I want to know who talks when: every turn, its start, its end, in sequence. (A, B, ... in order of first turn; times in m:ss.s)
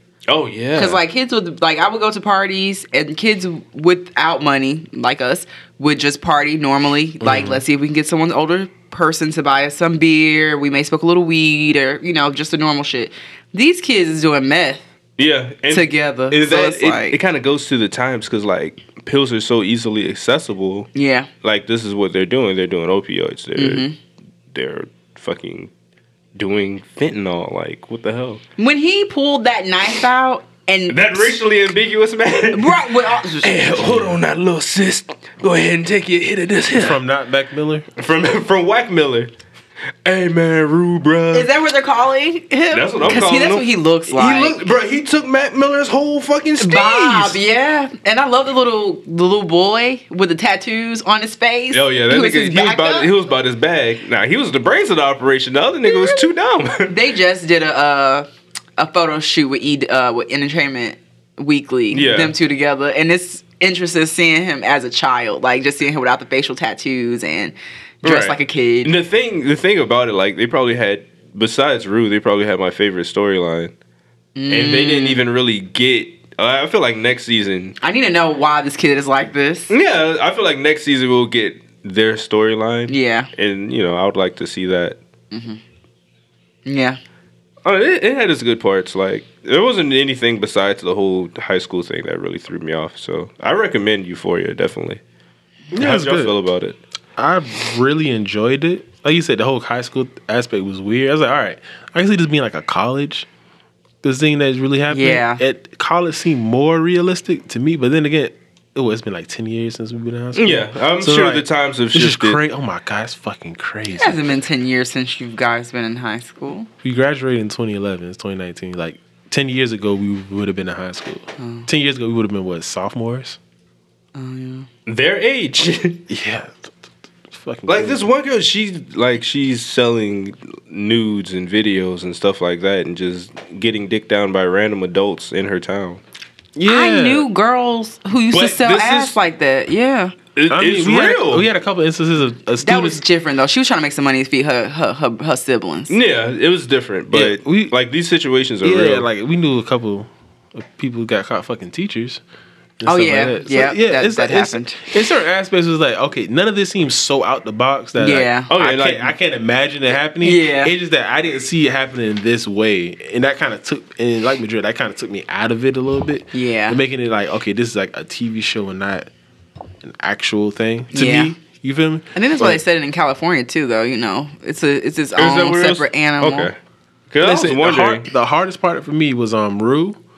0:00.3-0:01.0 A
0:00.8-0:14.8 B
0:07.2-0:07.6 C
0:15.2-0:20.9 A
0:15.7-0:17.2 B
0:20.9-0:21.3 B
0:21.4-0:23.9 A
0:23.6-0:24.0 B
0:24.5-0:25.7 A
0:26.4-0:28.4 A
0:28.6-0:31.4 B
0:30.9-0:37.0 A
0:32.5-0:33.7 B
0:33.8-0:34.2 C
0:36.7-0:37.8 C
0:38.0-0:39.3 A
0:40.0-0:41.5 A
0:41.3-0:44.6 B
0:42.7-0:47.4 A
0:46.6-0:53.1 B
0:51.7-0:57.0 A
0:55.9-0:56.2 B
0:56.9-0:58.2 B
0:58.8-1:08.9 B
1:01.9-1:02.3 A
1:08.0-1:13.7 A
1:14.4-1:15.2 B
1:14.5-1:17.8 A
1:17.8-1:19.7 B
1:19.7-1:25.0 A
1:22.9-1:23.3 B
1:25.3-1:25.6 B
1:26.6-1:27.0 B
1:27.6-1:35.0 A
1:35.7-1:36.8 A
1:35.7-1:36.3 C
1:37.2-1:43.3 C
1:44.0-1:54.3 C
1:44.9-1:45.4 B
1:50.3-1:52.4 A
1:53.9-1:56.7 B
1:56.8-2:03.4 C
2:01.4-2:01.7 B
2:04.1-2:04.7 B
2:04.8-2:06.1 A
2:06.1-2:06.7 C
2:07.3-2:08.0 C
2:07.7-2:16.0 A
2:16.6-2:17.3 C
2:16.6-2:20.2 B
2:18.3-2:19.2 A
2:20.4-2:21.5 A
2:20.5-2:23.0 C
2:22.6-2:26.0 B
2:25.9-2:29.0 A
2:27.1-2:27.7 C
2:28.6-2:32.2 C
2:32.8-2:49.1 C
2:32.8-2:34.8 B
2:38.0-2:38.5 B
2:38.5-2:39.1 A
2:40.2-2:40.7 B
2:46.3-2:46.8 B
2:49.8-2:52.6 C
2:50.9-2:51.3 B
2:52.1-2:56.5 B
2:55.2-2:56.5 A
2:57.1-2:58.1 A
2:57.2-3:00.0 C